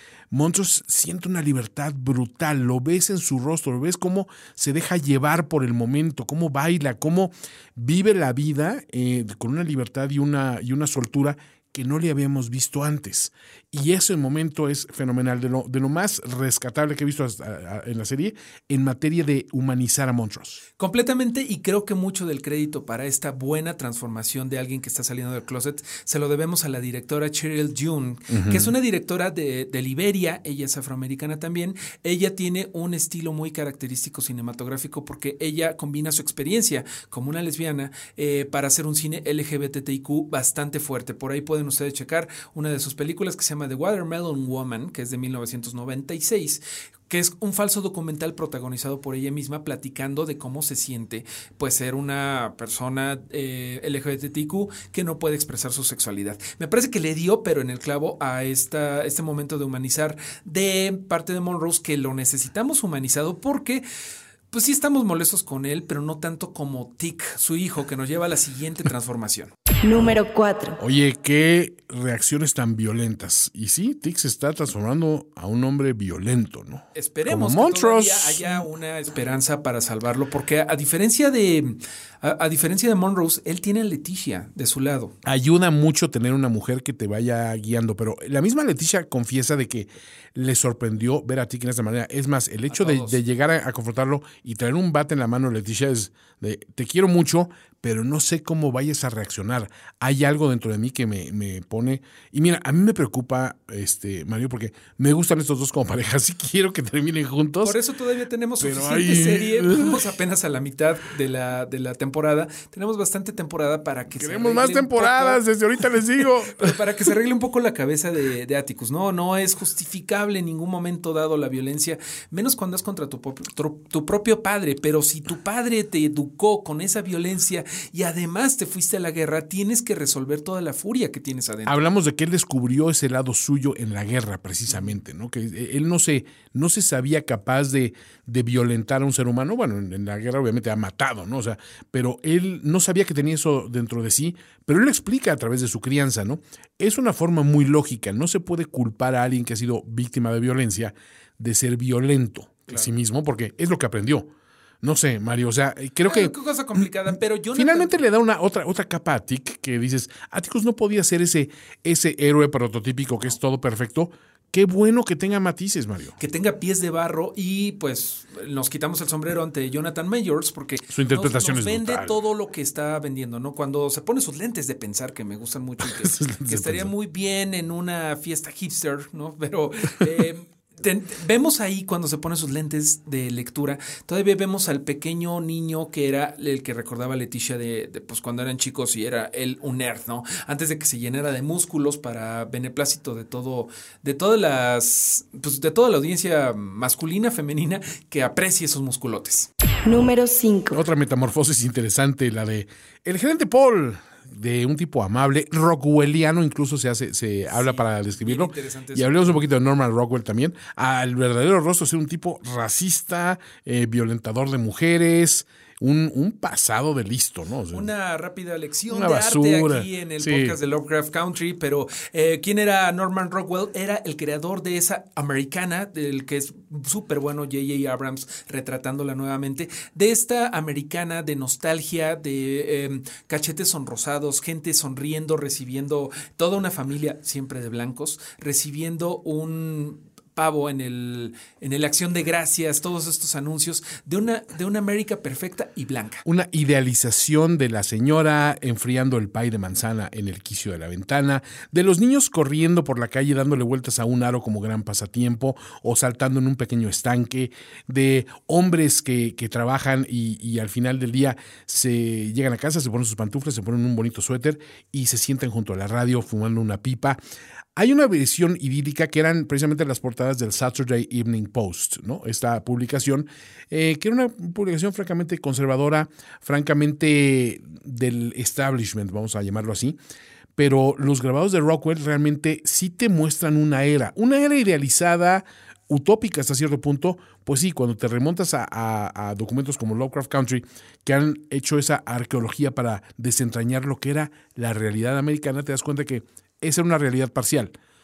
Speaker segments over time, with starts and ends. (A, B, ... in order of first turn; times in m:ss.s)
0:00.3-0:20.6 A
0:20.8-1:03.8 B
0:28.3-0:28.7 A
1:04.5-1:09.5 B
1:09.8-1:10.8 C
1:10.8-1:18.7 A
1:17.0-1:25.1 B
1:25.2-1:47.8 A
1:32.7-1:33.2 B
1:47.6-1:55.4 B
1:48.6-1:50.1 A
1:54.2-1:56.8 A
1:56.2-2:11.9 B
2:11.7-2:34.3 A
2:34.8-2:36.9 A
2:36.1-2:38.0 B
2:37.6-2:46.2 A
2:46.2-3:19.5 B
2:50.9-2:52.2 A
2:55.8-2:56.9 A
3:19.8-3:20.8 C
3:20.7-3:37.9 A
3:27.5-3:29.5 B
3:37.7-4:06.2 B
3:38.9-3:40.6 A
4:06.2-4:27.2 A
4:27.8-4:40.0 A
4:40.6-4:57.7 A